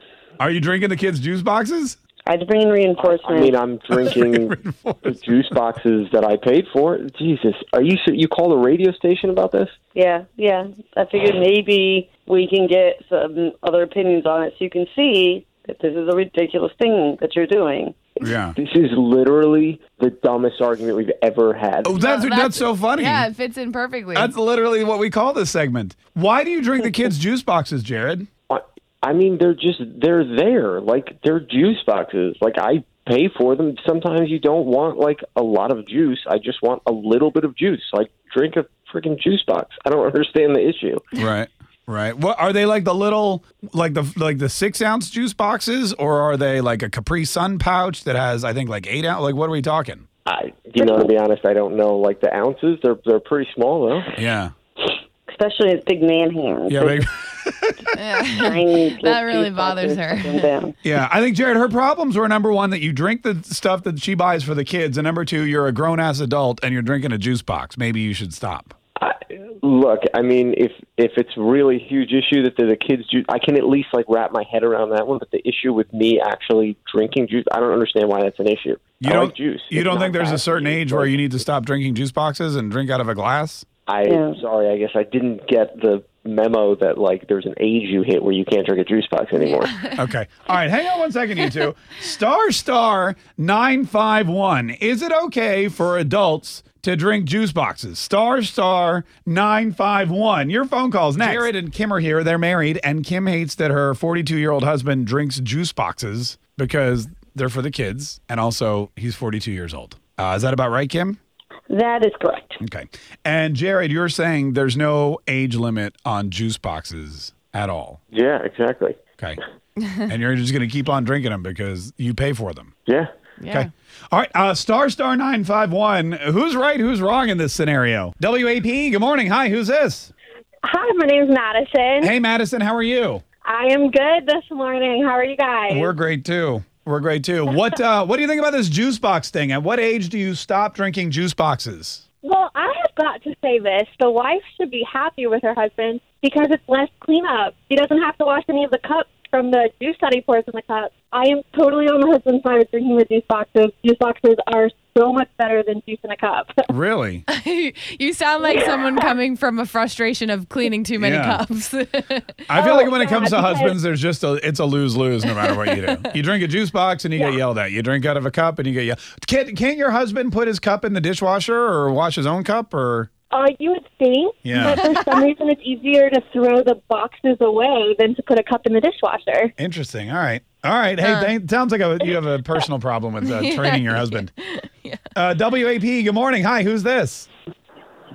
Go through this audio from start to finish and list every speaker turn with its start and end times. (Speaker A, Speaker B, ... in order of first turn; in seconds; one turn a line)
Speaker A: 0.4-2.0
Speaker B: 2.3-3.6
Speaker C: 3.0-9.7
Speaker A: 3.9-5.2
Speaker B: 9.9-18.0
Speaker A: 18.2-18.6
Speaker C: 18.2-21.9
Speaker A: 21.8-23.3
Speaker D: 21.9-24.3
Speaker A: 24.1-28.3
Speaker C: 28.5-41.0
Speaker A: 41.2-50.0
Speaker C: 50.3-54.2
Speaker B: 50.8-51.1
Speaker A: 54.2-54.5
Speaker B: 55.3-57.0
Speaker A: 56.7-57.8
Speaker D: 58.0-60.4
Speaker B: 58.4-60.8
Speaker A: 60.8-68.7
Speaker C: 69.0-81.3
Speaker A: 79.0-83.7
Speaker C: 83.9-89.9
Speaker B: 84.0-84.4
Speaker A: 90.0-111.2
Speaker B: 111.7-112.6
Speaker A: 112.6-118.0
Speaker C: 118.1-119.0
Speaker A: 120.1-122.7
Speaker D: 123.4-123.7
Speaker A: 123.5-130.1
Speaker E: 130.6-132.2
Speaker A: 132.0-133.2
Speaker E: 133.4-135.9
Speaker A: 135.7-142.0
Speaker E: 142.2-156.6
Speaker A: 156.7-157.2
Speaker D: 157.3-162.4
Speaker E: 158.5-159.1
Speaker A: 161.0-161.4
Speaker A: 162.5-173.1
Speaker E: 162.6-163.8
Speaker D: 165.3-166.1
Speaker E: 173.3-179.5
Speaker A: 174.4-175.1
Speaker A: 179.6-184.3
Speaker D: 181.0-181.3
Speaker D: 183.2-185.0
Speaker A: 185.2-187.3